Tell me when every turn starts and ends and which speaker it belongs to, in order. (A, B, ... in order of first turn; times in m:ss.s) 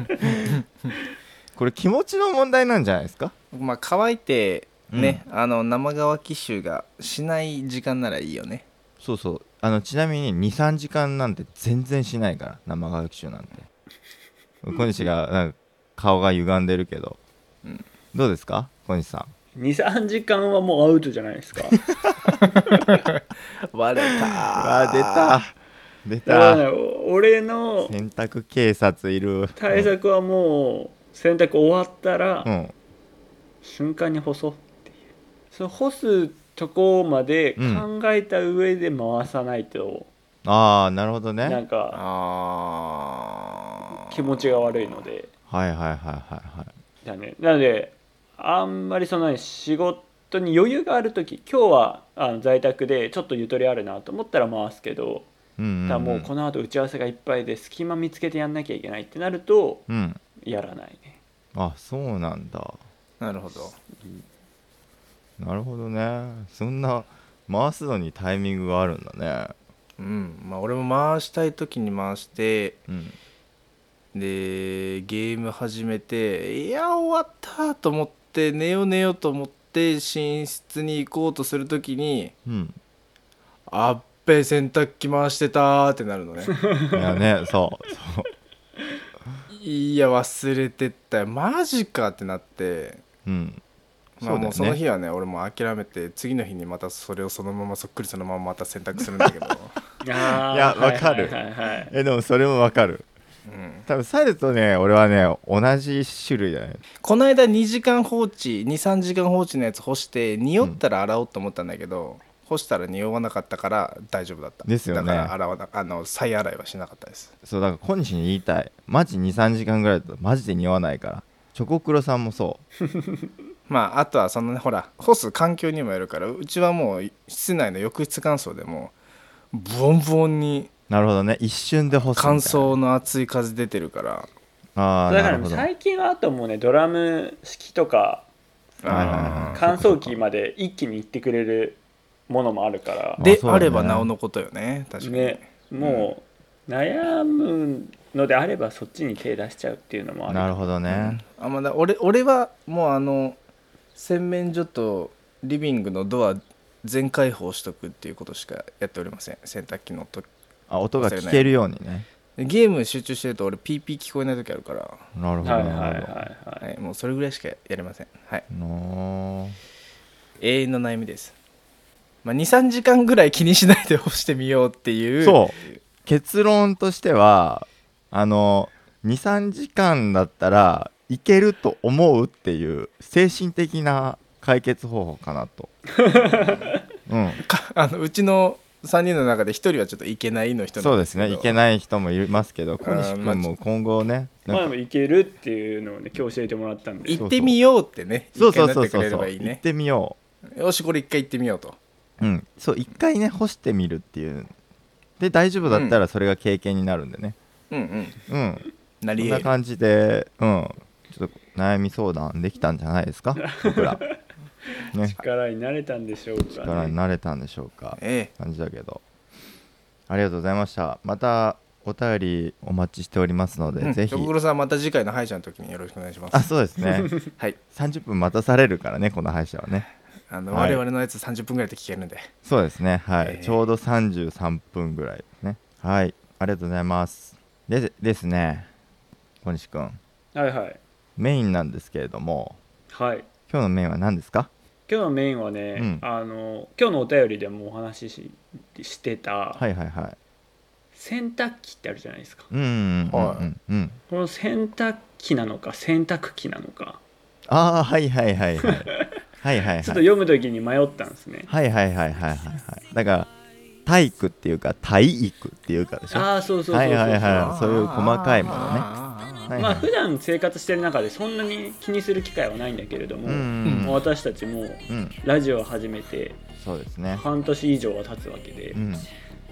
0:00.2-0:00.5 A
0:01.6-0:03.3 A
0:03.5-0:08.6 B
0:04.9-0:05.2 A
0:09.0-0:13.7 A
0:14.6-0:17.2 A
0:18.1-0:19.3 A
0:19.5-0:21.8 C
0:23.7-0:25.4 B
0:24.6-0:25.5 A
0:26.0-0:26.6 A
0:26.2-0:27.9 C
0:27.8-0:29.9 A
0:29.6-0:32.5 C
0:32.4-0:32.7 A
0:33.6-0:34.9 C
0:35.5-0:40.1 C
0:37.6-0:37.8 A
0:40.4-0:41.6 A
0:41.4-0:42.0 C
0:41.9-0:44.4 B
0:43.9-0:45.3 C
0:45.5-0:46.7 A
0:47.0-0:55.3 C
0:55.6-0:56.3 A
0:55.9-0:59.9 C
0:59.9-1:00.2 A
1:00.4-1:01.2 C
1:01.5-1:02.8 A
1:03.2-1:03.8 B
1:05.4-1:09.5 A
1:10.0-1:12.8 B
1:12.9-1:13.1 A
1:14.1-1:22.3 B
1:22.4-1:22.8 A
1:23.7-1:26.6 B
1:26.5-1:27.1 C
1:26.9-1:28.3 A
1:29.5-1:33.0 B
1:33.2-1:33.6 A
1:34.2-1:34.8 A
1:34.2-1:39.8 B
1:40.0-1:41.9 C
1:40.3-1:41.4 A
1:41.9-1:43.0 A
1:43.5-1:43.9 B
1:43.9-1:46.8 A
1:47.0-1:57.3 B
1:54.6-1:55.3 A
1:57.4-2:02.6 A
2:03.7-2:08.9 B
2:09.5-2:10.7 B
2:10.9-2:12.8 A
2:12.1-2:14.3 B
2:14.8-2:15.7 A
2:15.1-2:18.3 C
2:18.8-2:19.6 B
2:18.8-2:23.2 C
2:18.9-2:20.2 A
2:23.2-2:24.1 A
2:23.2-2:26.1 B
2:25.0-2:30.5 C
2:30.3-2:31.2 A
2:30.9-2:33.4 B
2:33.9-2:40.3 B
2:40.7-2:42.0 A
2:41.0-2:41.5 B
2:42.4-2:45.0 B
2:45.1-2:46.2 A
2:45.4-2:46.6 C
2:46.6-2:48.5 B
2:48.5-2:49.6 A
2:50.4-2:51.3 B
2:52.2-2:55.8 B
2:55.2-3:05.7 A
3:05.9-3:06.8 C
3:07.1-3:07.4 A
3:07.4-3:11.5 B
3:10.8-3:14.7 A
3:12.8-3:13.4 B
3:14.5-3:17.2 C
3:17.1-3:19.6 B
3:17.2-3:17.5 A
3:18.4-3:20.2 A
3:20.5-3:21.8 B
3:22.2-3:24.5 A
3:25.2-3:27.4 A
3:25.7-3:26.0 B
3:27.7-3:28.2 B
3:28.3-3:28.6 A
3:29.0-3:29.5 B
3:29.2-3:34.0 A
3:33.4-3:34.2 C
3:35.1-3:36.9 C
3:36.6-3:39.0 A
3:38.0-3:38.3 B
3:40.1-3:44.3 A
3:43.8-3:46.5 B
3:46.3-3:49.9 A
3:50.3-3:52.3 B
3:50.5-3:50.8 A
3:52.4-3:58.7 A
3:53.2-3:53.6 B
3:59.4-4:00.0 A
4:00.3-4:00.8 C
4:01.2-4:02.6 A
4:02.9-4:03.3 C
4:03.5-4:04.5 A
4:04.9-4:09.6 C
4:05.8-4:06.0 A
4:09.6-4:10.2 A
4:10.9-4:12.5 C
4:12.5-4:14.0 A
4:13.1-4:13.5 B
4:14.1-4:17.0 C
4:17.5-4:20.0 A
4:18.6-4:19.1 C
4:19.8-4:21.5 C
4:21.5-4:23.3 A
4:23.8-4:28.9 A
4:26.1-4:27.6 C
4:27.2-4:29.5 B
4:29.5-4:29.9 A
4:29.5-4:36.4 C
4:33.2-4:34.0 A
4:33.6-4:34.0 B
4:34.9-4:35.1 A
4:36.6-4:37.2 A
4:37.1-4:38.8 C
4:38.7-4:39.1 A